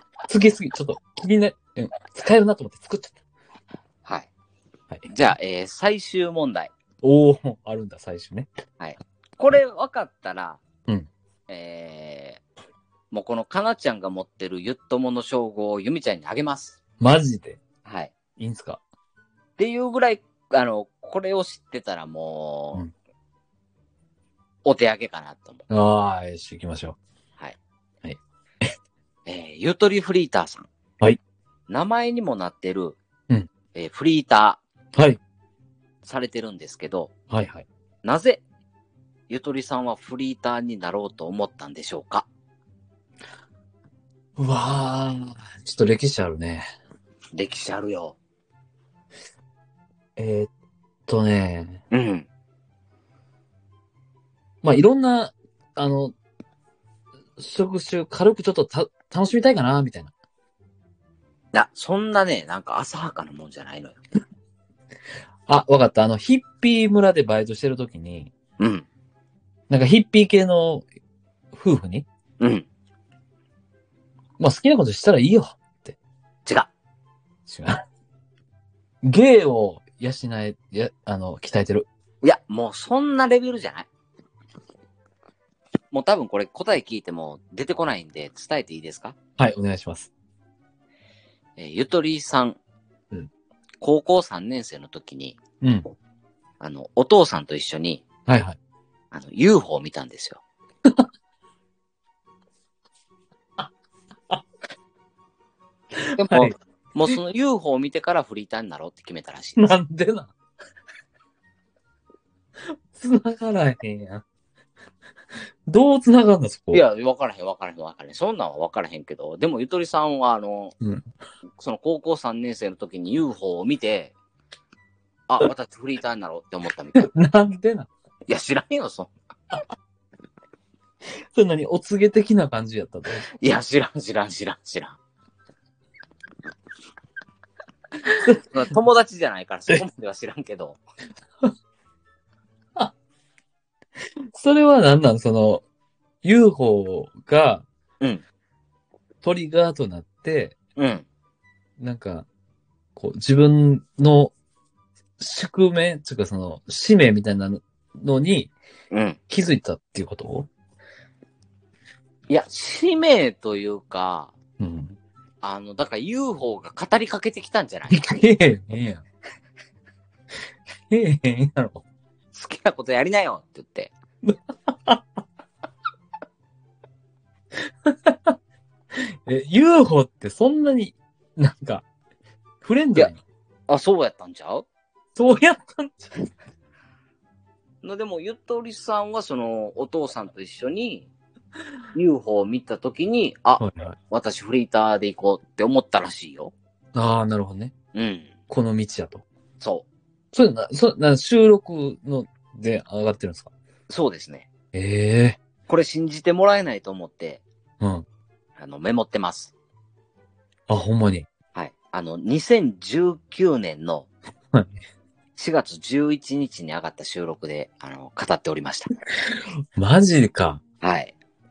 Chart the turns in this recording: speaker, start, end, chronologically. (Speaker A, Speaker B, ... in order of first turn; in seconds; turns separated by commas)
Speaker A: 0.3-3.1, Speaker B: 5.0-6.7, Speaker A: 7.0-8.5, Speaker B: 8.8-10.6, Speaker B: 11.5-12.4, Speaker B: 13.1-16.8, Speaker A: 17.0-17.6, Speaker B: 17.9-18.1, Speaker A: 18.4-18.8, Speaker B: 19.6-22.8, Speaker B: 24.6-25.6, Speaker A: 25.7-27.0, Speaker A: 28.0-28.7, Speaker B: 29.3-30.7, Speaker B: 31.7-33.0, Speaker B: 33.8-34.6, Speaker B: 36.0-37.1, Speaker A: 37.3-37.7, Speaker B: 38.0-38.4, Speaker B: 39.3-42.3, Speaker A: 44.4-46.7, Speaker B: 47.3-48.2, Speaker A: 50.2-50.5, Speaker A: 51.1-51.8, Speaker B: 51.9-52.3, Speaker A: 54.6-56.1, Speaker A: 57.4-60.1, Speaker B: 61.5-64.0, Speaker A: 65.5-68.3, Speaker B: 68.6-68.9, Speaker A: 69.7-70.8, Speaker A: 71.5-72.1, Speaker B: 72.4-72.7, Speaker A: 74.4-76.0, Speaker A: 77.5-77.8, Speaker A: 79.0-81.9, Speaker B: 82.2-83.9, Speaker B: 85.9-89.2, Speaker A: 89.4-90.1, Speaker B: 91.6-92.6, Speaker B: 93.8-95.4, Speaker A: 95.6-95.9, Speaker B: 96.6-98.0, Speaker A: 98.3-98.6, Speaker B: 99.1-100.4, Speaker A: 106.0-106.5, Speaker B: 106.2-109.7, Speaker A: 109.6-110.3, Speaker A: 112.9-114.2, Speaker A: 115.7-116.8, Speaker B: 116.7-120.7, Speaker B: 121.6-124.1, Speaker B: 125.3-127.1, Speaker A: 127.0-127.9, Speaker B: 128.3-129.1, Speaker A: 131.3-133.2, Speaker B: 133.4-135.0, Speaker B: 138.4-140.8, Speaker A: 144.3-145.6, Speaker A: 146.2-147.7, Speaker A: 149.2-150.6, Speaker B: 150.8-151.1, Speaker A: 151.8-152.3, Speaker A: 153.0-154.3, Speaker A: 155.2-158.5, Speaker B: 158.9-159.2, Speaker A: 159.3-160.5, Speaker B: 162.3-164.3, Speaker A: 164.6-165.0, Speaker B: 165.4-168.0, Speaker A: 167.9-169.0, Speaker A: 170.9-171.8, Speaker B: 172.3-173.9, Speaker A: 174.2-175.0, Speaker A: 177.9-178.3, Speaker A: 179.3-181.8, Speaker A: 182.6-183.2, Speaker B: 183.7-184.7, Speaker A: 185.2-186.2, Speaker B: 187.8-191.1, Speaker B: 191.9-196.5, Speaker A: 193.6-194.0, Speaker A: 196.9-197.7, Speaker B: 197.9-198.3, Speaker A: 198.5-199.2, Speaker B: 199.6-199.9, Speaker A: 200.3-203.5, Speaker B: 203.9-204.5, Speaker A: 204.7-205.4, Speaker B: 205.7-207.4, Speaker A: 207.8-208.1, Speaker B: 208.6-209.5, Speaker A: 210.7-211.3, Speaker B: 211.6-214.1, Speaker B: 215.4-218.9, Speaker A: 219.8-220.6, Speaker B: 220.8-221.1